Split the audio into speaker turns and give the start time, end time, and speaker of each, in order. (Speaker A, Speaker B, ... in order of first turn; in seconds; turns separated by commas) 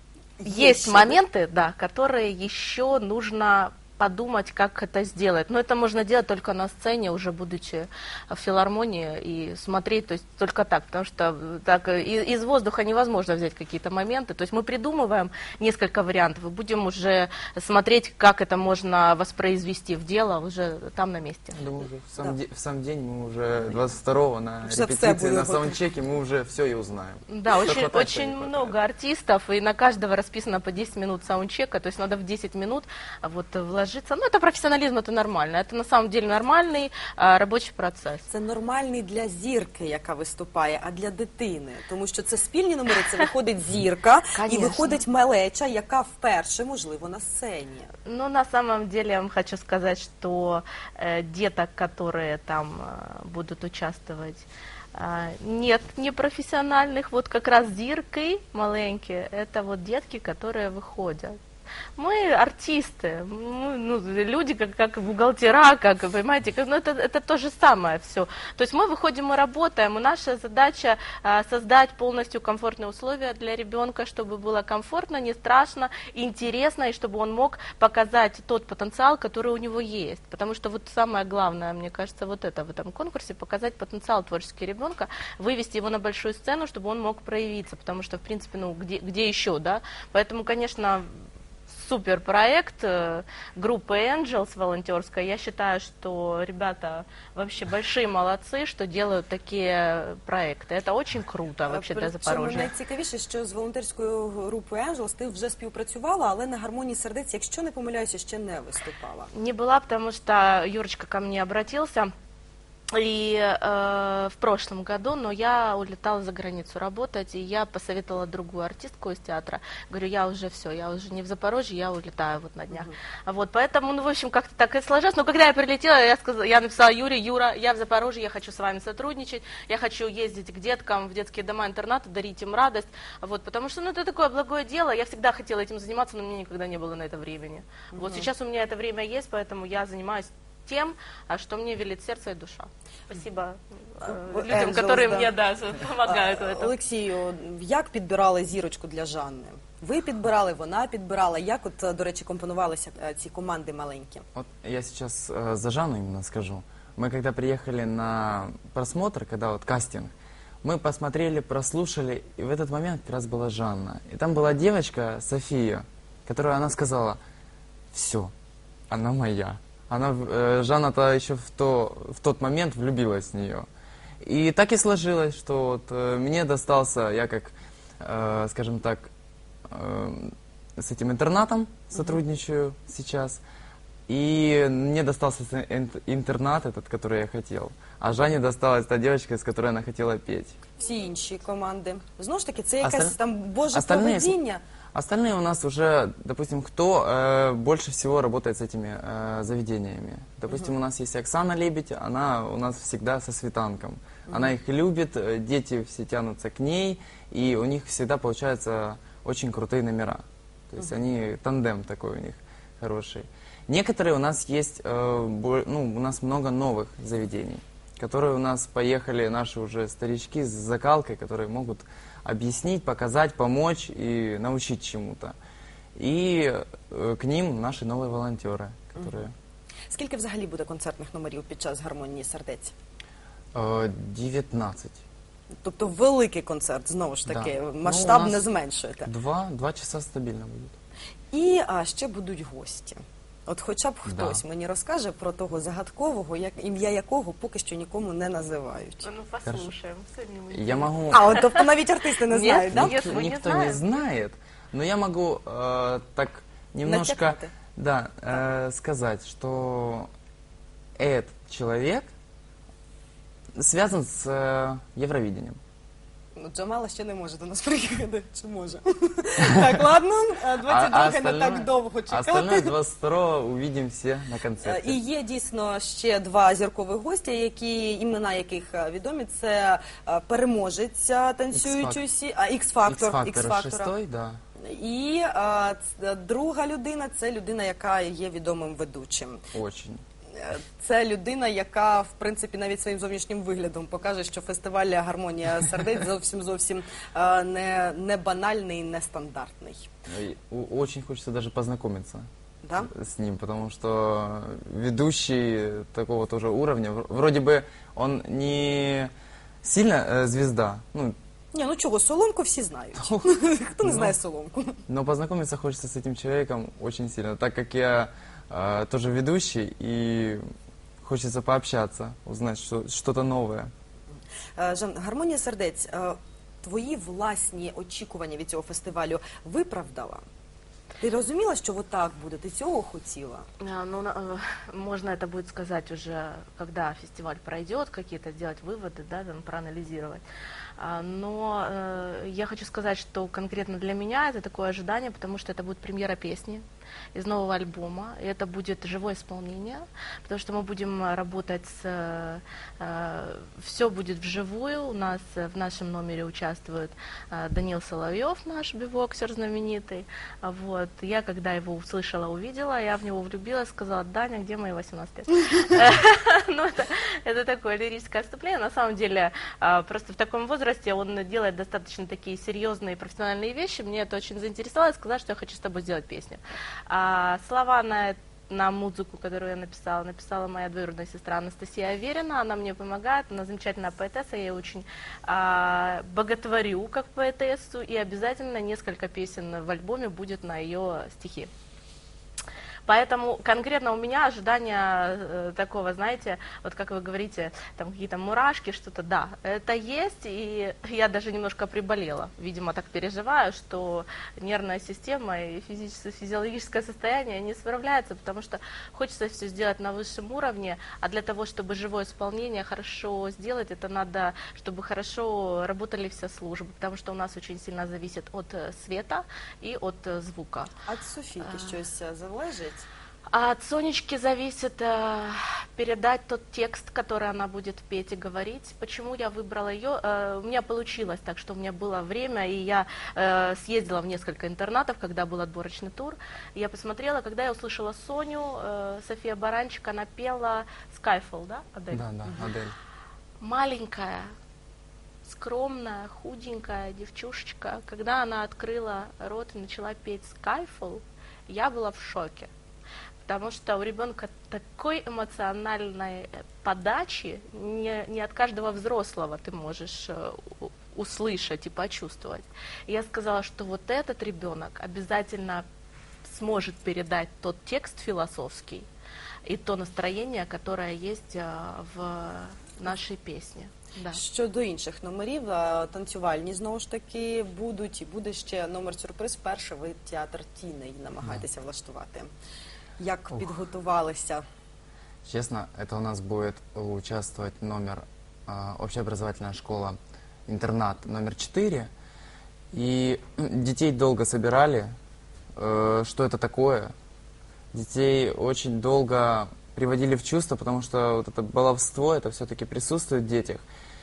Speaker A: 0.4-1.1, Speaker B: 0.4-21.6, Speaker C: 21.5-28.7, Speaker A: 24.6-25.8, Speaker B: 27.3-38.2, Speaker A: 38.3-47.9, Speaker B: 44.3-45.0, Speaker B: 48.0-61.4, Speaker B: 62.0-91.1, Speaker B: 91.7-102.7, Speaker A: 101.7-109.3, Speaker B: 109.3-112.1, Speaker B: 112.9-146.7, Speaker A: 137.9-138.3, Speaker A: 144.0-145.3, Speaker A: 146.0-154.2, Speaker C: 154.3-160.1, Speaker C: 160.6-167.2, Speaker C: 167.9-168.3, Speaker C: 168.9-173.7, Speaker C: 174.2-179.1, Speaker C: 179.7-183.4, Speaker C: 184.1-190.6, Speaker A: 190.8-194.6, Speaker C: 192.8-193.2, Speaker C: 193.7-194.3, Speaker C: 194.9-225.3, Speaker A: 204.3-204.5, Speaker C: 225.9-229.3, Speaker A: 229.9-232.7, Speaker C: 233.5-235.0, Speaker A: 235.6-239.1, Speaker C: 237.2-238.5, Speaker C: 239.0-240.8, Speaker A: 241.3-249.1, Speaker C: 244.0-244.4, Speaker B: 249.0-251.6, Speaker C: 250.5-251.3, Speaker A: 251.1-253.1, Speaker B: 252.3-253.8, Speaker C: 252.7-260.1, Speaker A: 256.8-257.5, Speaker C: 261.0-262.1, Speaker C: 263.6-265.6, Speaker A: 266.4-272.7, Speaker C: 270.6-275.0, Speaker A: 274.6-283.9, Speaker C: 281.5-282.0, Speaker C: 282.9-284.4, Speaker A: 284.6-289.4, Speaker C: 289.5-290.0, Speaker A: 290.3-299.9, Speaker C: 300.1-302.3, Speaker A: 302.6-302.9, Speaker C: 302.8-309.1, Speaker C: 309.6-311.1, Speaker A: 311.5-314.8, Speaker C: 312.9-313.3, Speaker C: 313.8-314.1, Speaker C: 314.9-320.4, Speaker C: 321.0-323.7, Speaker A: 324.6-330.2, Speaker A: 331.0-333.4, Speaker B: 333.6-340.2, Speaker B: 340.8-346.6, Speaker B: 347.1-391.5, Speaker B: 392.9-420.7, Speaker A: 420.9-422.9, Speaker B: 421.4-421.7, Speaker B: 423.3-442.1, Speaker C: 441.9-442.7, Speaker B: 443.4-444.3, Speaker B: 445.2-452.5, Speaker B: 453.2-465.6, Speaker B: 466.2-468.9, Speaker B: 469.4-474.2, Speaker A: 474.1-482.3, Speaker A: 483.0-484.4, Speaker C: 485.2-491.9, Speaker C: 492.7-494.9, Speaker C: 495.6-496.9, Speaker C: 497.7-503.6